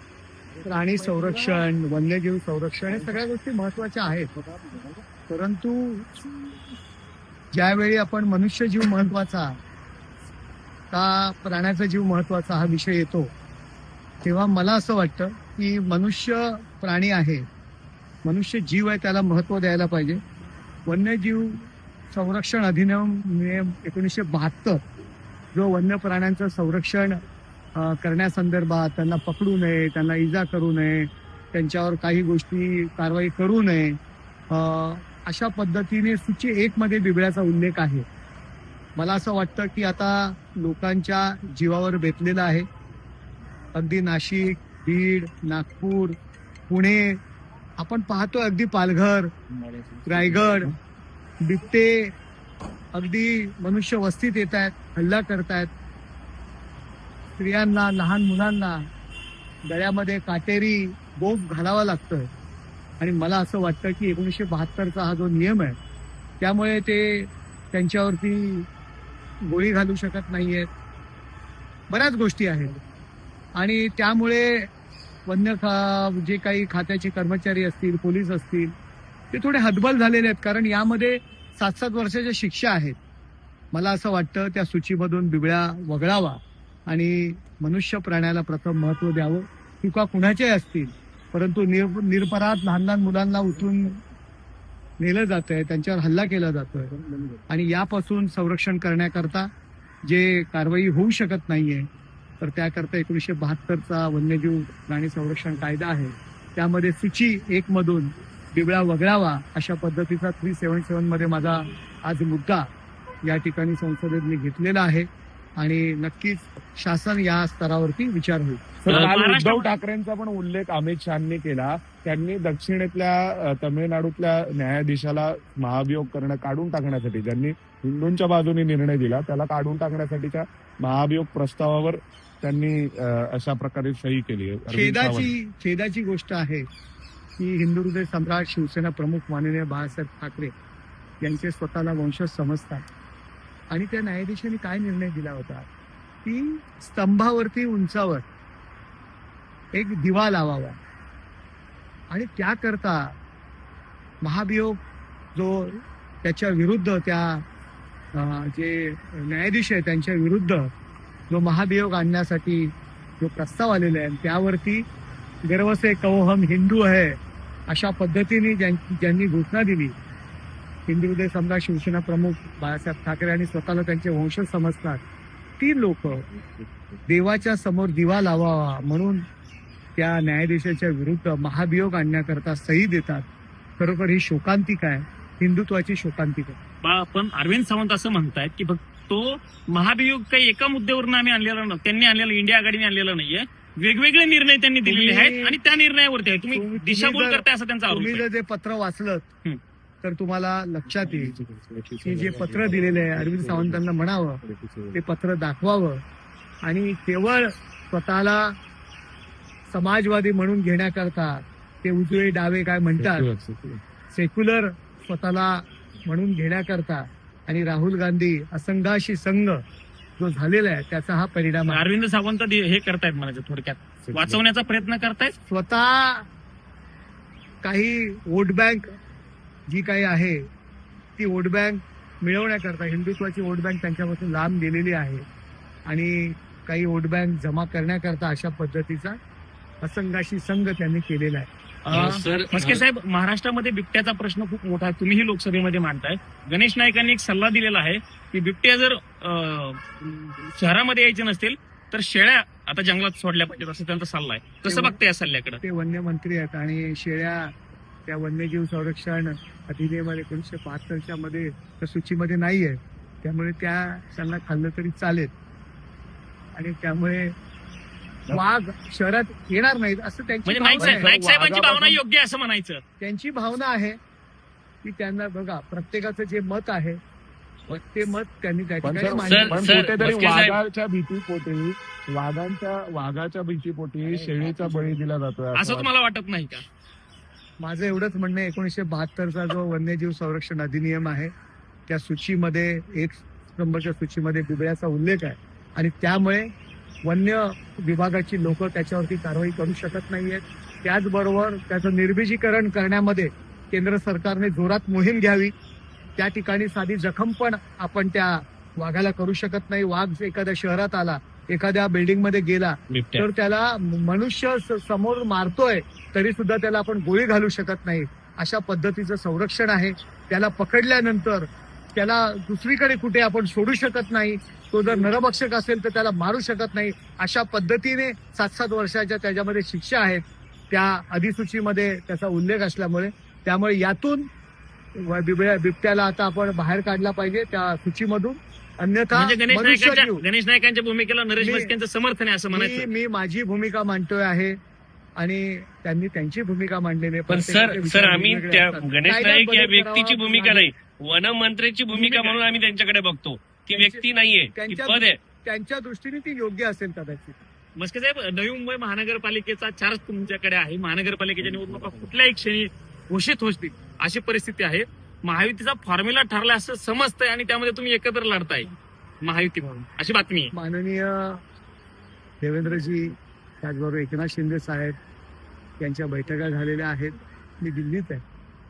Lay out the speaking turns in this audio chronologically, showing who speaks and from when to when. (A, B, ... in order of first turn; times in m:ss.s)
0:00.6-0:04.3 A
0:01.0-0:01.5 B
0:04.5-0:04.9 B
0:05.3-0:06.1 A
0:07.5-0:09.6 A
0:10.9-0:13.3 A
0:14.2-0:17.4 A
0:18.2-0:20.2 A
0:20.9-0:24.8 A
0:25.5-0:27.2 A
0:27.8-0:34.0 A
0:34.5-0:38.0 A
0:39.0-0:42.7 A
0:43.8-0:46.2 A
0:46.7-0:47.2 A
0:47.8-0:49.3 A
0:49.8-0:50.7 B
0:50.1-0:50.7 A
0:51.4-0:52.1 A
0:52.9-0:55.7 A
0:57.4-0:58.9 A
0:59.7-1:02.3 A
1:03.0-1:05.8 A
1:06.4-1:08.7 A
1:09.5-1:10.7 A
1:11.9-1:12.8 A
1:13.6-1:14.7 A
1:15.3-1:18.7 A
1:19.3-1:23.0 A
1:23.7-1:34.0 A
1:35.0-1:36.9 A
1:37.5-1:39.5 A
1:40.1-1:41.9 A
1:42.4-1:52.7 A
1:53.3-1:58.8 A
1:58.8-2:15.4 B
1:58.9-1:59.7 C
2:14.7-2:16.6 A
2:17.4-2:20.5 A
2:21.2-2:22.8 A
2:23.7-2:25.7 A
2:26.2-2:28.2 A
2:29.7-2:30.8 A
2:32.1-2:33.2 A
2:34.2-2:34.8 A
2:35.4-2:37.4 A
2:38.2-2:40.7 A
2:41.3-2:44.8 A
2:45.5-2:47.2 A
2:47.7-2:49.9 A
2:50.9-2:55.0 A
2:55.6-2:56.2 A
2:57.1-2:59.2 A
3:00.0-3:03.3 A
3:03.8-3:06.6 A
3:06.8-3:18.2 C
3:14.8-3:15.6 A
3:16.5-3:19.3 A
3:20.0-3:21.4 A
3:20.9-3:23.8 B
3:22.0-3:24.4 A
3:24.4-3:25.0 B
3:24.9-3:26.0 A
3:26.6-3:28.5 A
3:29.7-3:33.3 A
3:33.0-3:33.8 B
3:34.1-3:39.6 A
3:40.2-3:41.8 A
3:41.7-3:45.4 C
3:44.1-3:44.4 B
3:45.5-3:46.3 A
3:47.6-3:48.9 A
3:49.7-3:50.4 A
3:51.2-3:55.2 A
3:55.9-3:59.2 A
3:59.8-4:01.5 A
4:01.9-4:15.6 C
4:01.9-4:02.8 D
4:14.7-4:15.0 A
4:15.6-4:17.5 A
4:18.1-4:25.3 A
4:26.6-4:27.3 A
4:28.3-4:31.1 A
4:30.5-4:32.8 C
4:30.8-4:32.0 B
4:33.0-4:34.0 A
4:34.8-4:37.0 A
4:37.7-4:39.7 A
4:38.8-4:45.9 B
4:39.1-4:40.6 D
4:44.3-4:44.7 A
4:45.6-4:46.6 C
4:47.6-4:51.3 A
4:51.9-4:56.5 A
4:57.0-5:05.5 A
5:06.2-5:34.3 A
5:12.9-5:13.3 D
5:35.0-5:40.2 A
5:39.1-5:42.9 C
5:41.4-5:41.7 A
5:42.5-5:44.6 A
5:45.2-5:50.7 A
5:47.3-5:55.2 D
5:52.0-5:52.3 A
5:52.0-5:52.3 C
5:53.7-5:57.4 A
5:57.8-6:08.7 C
6:09.2-6:10.5 C
6:10.5-6:11.4 A
6:12.4-6:15.0 A
6:15.8-6:18.2 A